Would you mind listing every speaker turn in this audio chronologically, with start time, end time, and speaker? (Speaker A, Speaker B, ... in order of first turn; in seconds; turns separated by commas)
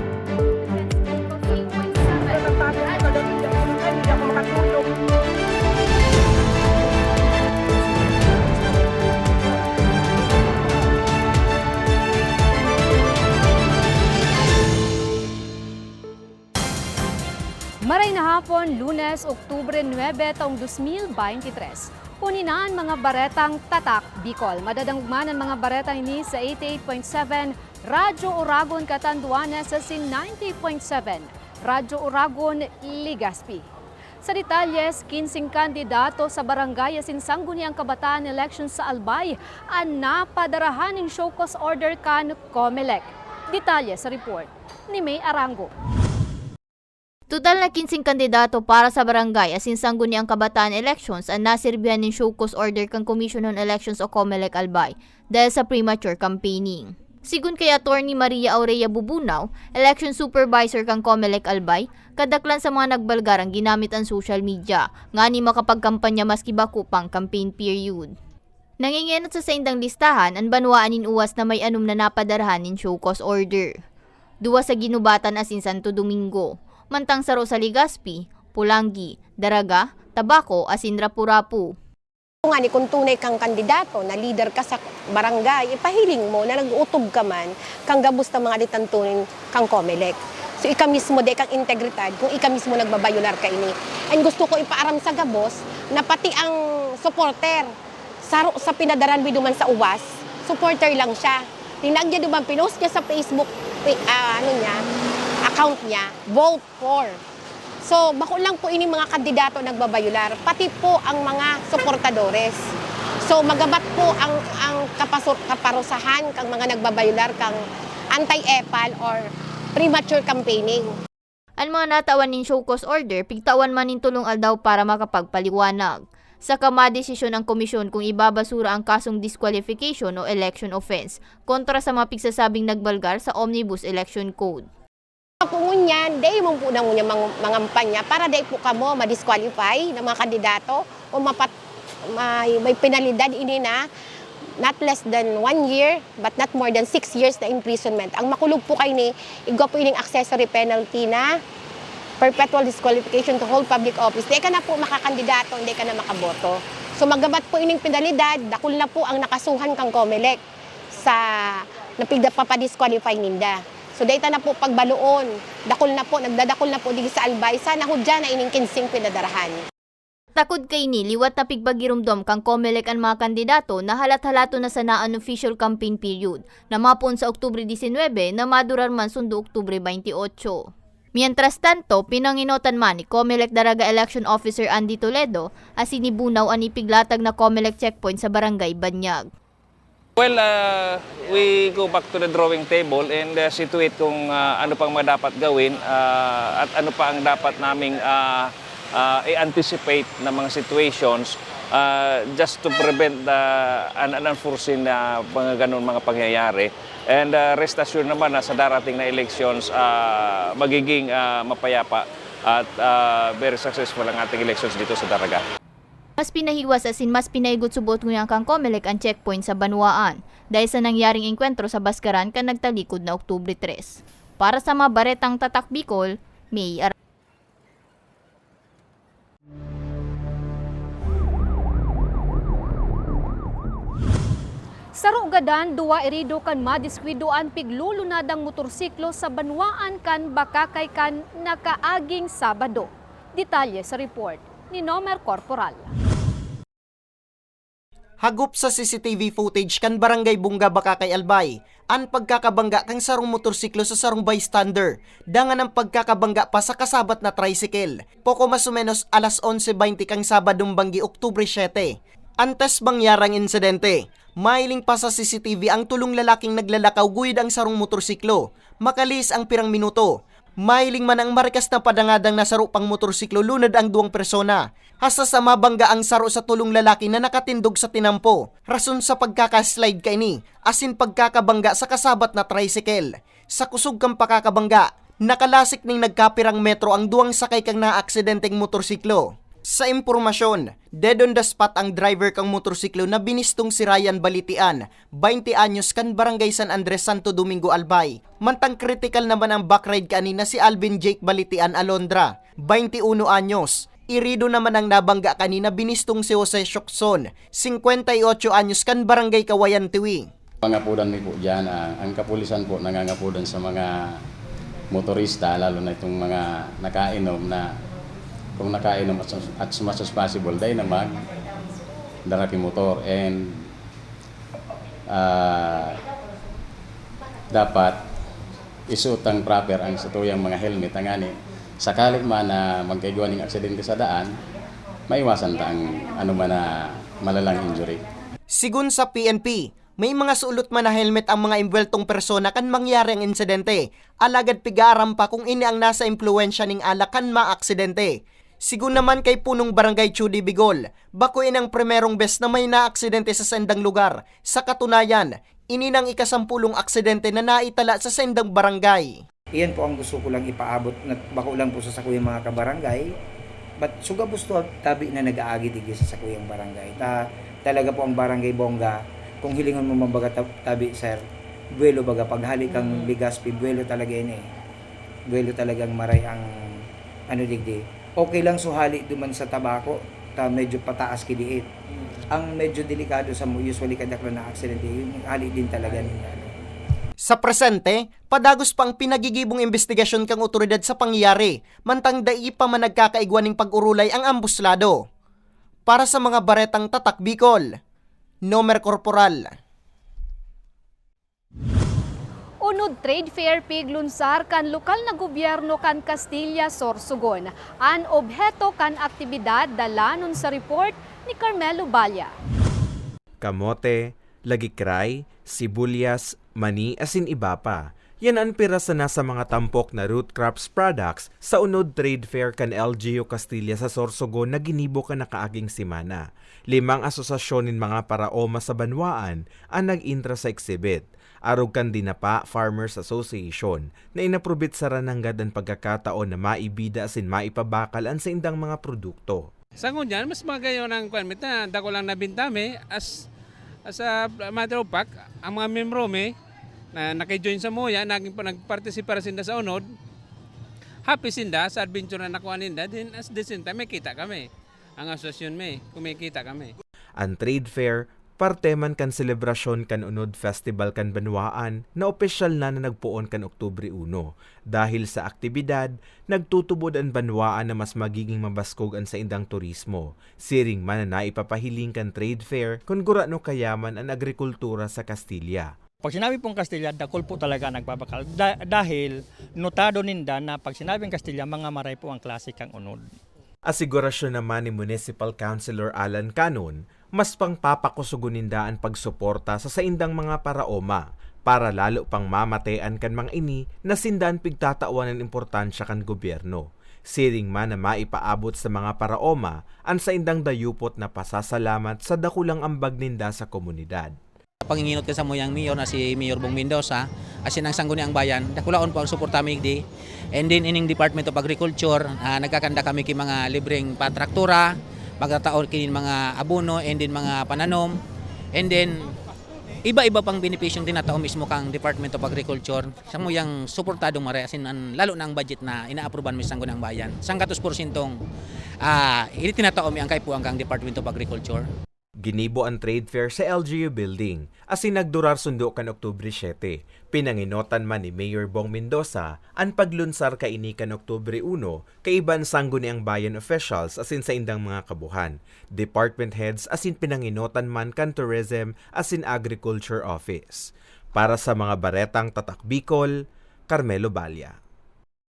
Speaker A: 1.3-2.5, Speaker A: 17.8-33.7, Speaker A: 34.2-45.7, Speaker B: 47.3-68.1, Speaker B: 68.8-73.8, Speaker B: 74.4-81.8, Speaker C: 82.5-97.7, Speaker C: 98.2-104.8, Speaker C: 105.5-107.2, Speaker C: 107.8-112.7, Speaker C: 113.2-117.6, Speaker C: 118.1-119.2, Speaker C: 119.8-121.0, Speaker B: 121.6-134.7, Speaker C: 135.4-141.5, Speaker C: 142.1-143.8, Speaker C: 144.6-151.3, Speaker C: 152.2-160.4, Speaker C: 160.9-169.6, Speaker B: 170.3-189.2, Speaker D: 190.2-215.4, Speaker B: 216.2-226.9, Speaker A: 234.9-245.9, Speaker E: 248.2-310.3, Speaker F: 310.6-314.1, Speaker F: 314.9-317.7, Speaker F: 318.6-321.2, Speaker F: 322.2-323.7, Speaker F: 325.1-326.0, Speaker F: 327.5-328.0, Speaker F: 328.9-334.3, Speaker F: 335.1-338.0, Speaker E: 338.5-359.2, Speaker G: 359.5-363.1, Speaker G: 363.8-371.2, Speaker G: 371.8-374.5, Speaker G: 375.3-381.7, Speaker G: 382.3-386.2, Speaker E: 387.2-395.0, Speaker E: 395.9-397.7, Speaker E: 398.5-399.5, Speaker A: 402.6-412.3, Speaker H: 413.4-439.5, Speaker I: 439.8-443.2, Speaker I: 443.9-446.3, Speaker I: 446.9-449.9, Speaker I: 451.1-454.5, Speaker I: 455.0-456.7, Speaker H: 457.2-475.7, Speaker J: 476.0-483.1, Speaker H: 483.7-504.1, Speaker K: 504.7-509.8, Speaker K: 510.3-517.9, Speaker K: 518.6-519.1, Speaker K: 519.9-528.1, Speaker K: 528.8-531.6, Speaker H: 532.2-553.1, Speaker H: 553.7-554.5